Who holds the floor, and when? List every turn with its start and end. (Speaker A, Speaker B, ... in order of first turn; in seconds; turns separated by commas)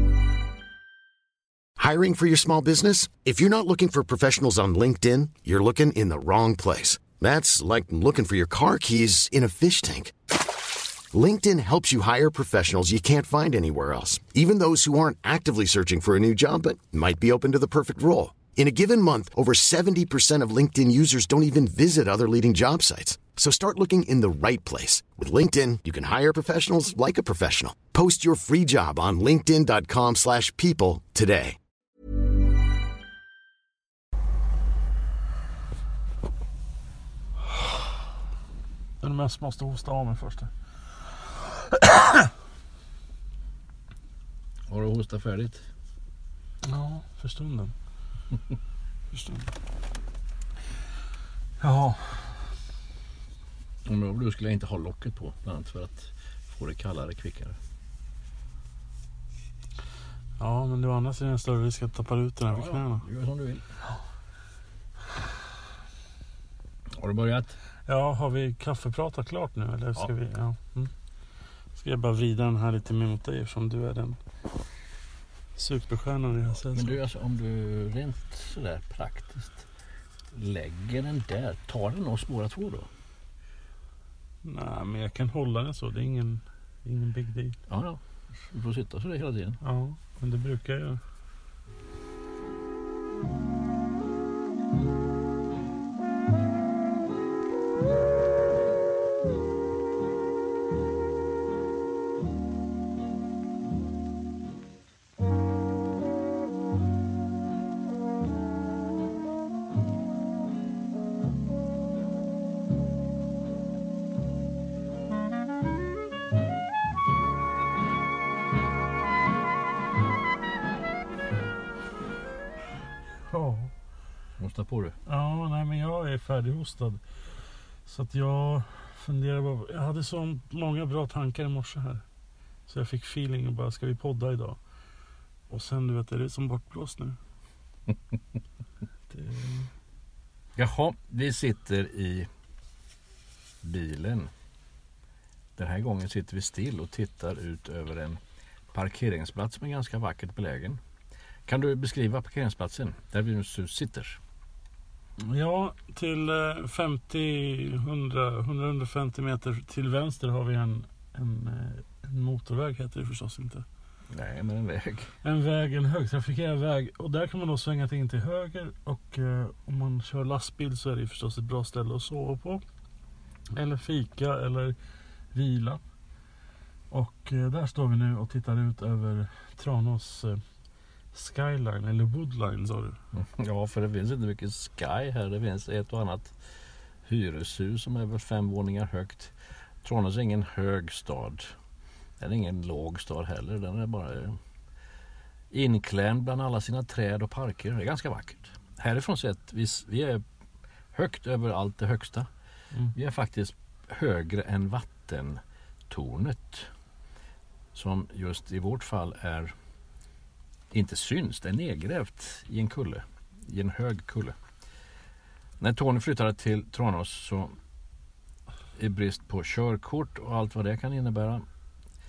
Speaker A: 1.8-10.1, Speaker A: 11.1-31.6, Speaker B: 39.0-40.5, Speaker B: 41.4-42.3, Speaker C: 44.7-45.7, Speaker B: 46.6-47.7, Speaker B: 49.1-49.5, Speaker B: 51.6-52.4, Speaker C: 53.9-57.6, Speaker B: 60.4-63.0, Speaker C: 62.5-63.7, Speaker C: 67.0-67.6, Speaker B: 67.9-70.9, Speaker B: 71.8-74.2, Speaker B: 75.6-77.0, Speaker C: 76.7-79.7, Speaker C: 80.3-82.9, Speaker B: 84.4-87.6, Speaker C: 87.7-89.6, Speaker B: 89.6-91.0, Speaker B: 123.2-123.7, Speaker C: 124.4-125.0, Speaker B: 125.1-127.0, Speaker B: 127.8-132.0, Speaker B: 132.7-134.6, Speaker B: 135.5-137.2, Speaker B: 139.1-139.7, Speaker C: 140.6-142.3, Speaker C: 143.6-144.3, Speaker C: 145.6-148.2, Speaker C: 148.7-150.8, Speaker C: 151.5-154.2, Speaker B: 155.2-163.7, Speaker C: 164.1-165.2, Speaker B: 165.2-172.6, Speaker B: 173.5-174.8, Speaker B: 175.3-175.8, Speaker B: 176.9-180.4, Speaker B: 181.1-183.0, Speaker C: 183.1-186.3, Speaker C: 187.1-191.6, Speaker C: 192.2-194.4, Speaker C: 195.5-200.2, Speaker C: 200.9-202.3, Speaker C: 202.9-206.7, Speaker C: 207.7-209.5, Speaker C: 210.7-214.3, Speaker C: 215.6-217.6, Speaker C: 218.8-221.5